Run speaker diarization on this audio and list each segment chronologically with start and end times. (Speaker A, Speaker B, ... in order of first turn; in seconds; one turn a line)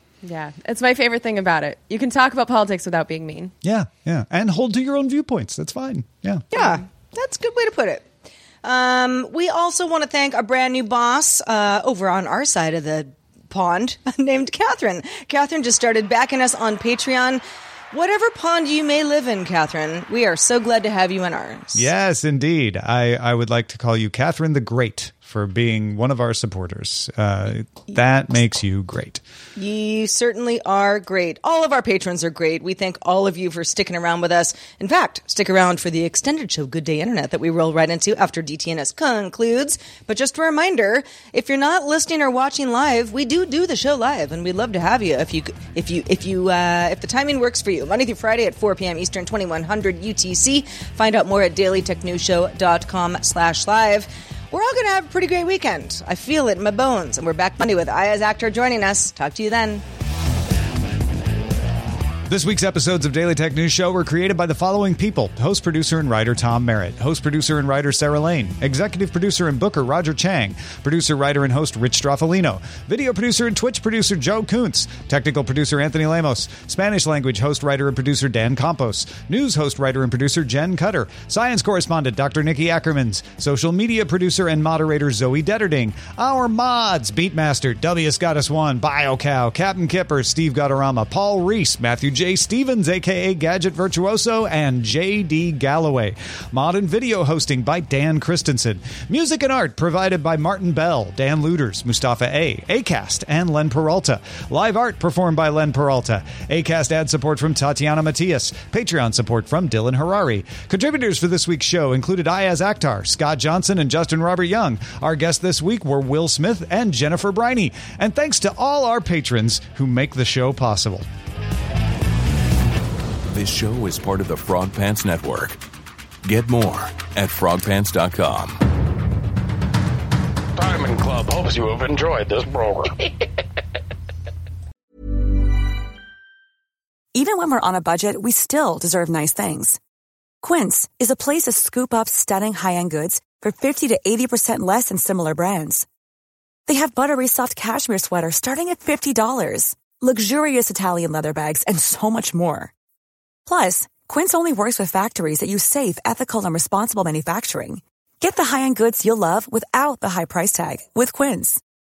Speaker A: 0.2-3.5
Speaker B: 3.6-6.5
Speaker C: 6.5-8.1
Speaker C: 8.6-21.9
Speaker B: 21.8-29.2
Speaker C: 29.6-59.8
Speaker B: 62.3-121.1
Speaker D: 123.3-125.6
Speaker D: 126.2-128.6
Speaker E: 130.6-133.1
Speaker F: 137.1-139.8
Speaker F: 140.4-145.9
Speaker F: 146.7-152.7
Speaker F: 153.5-161.6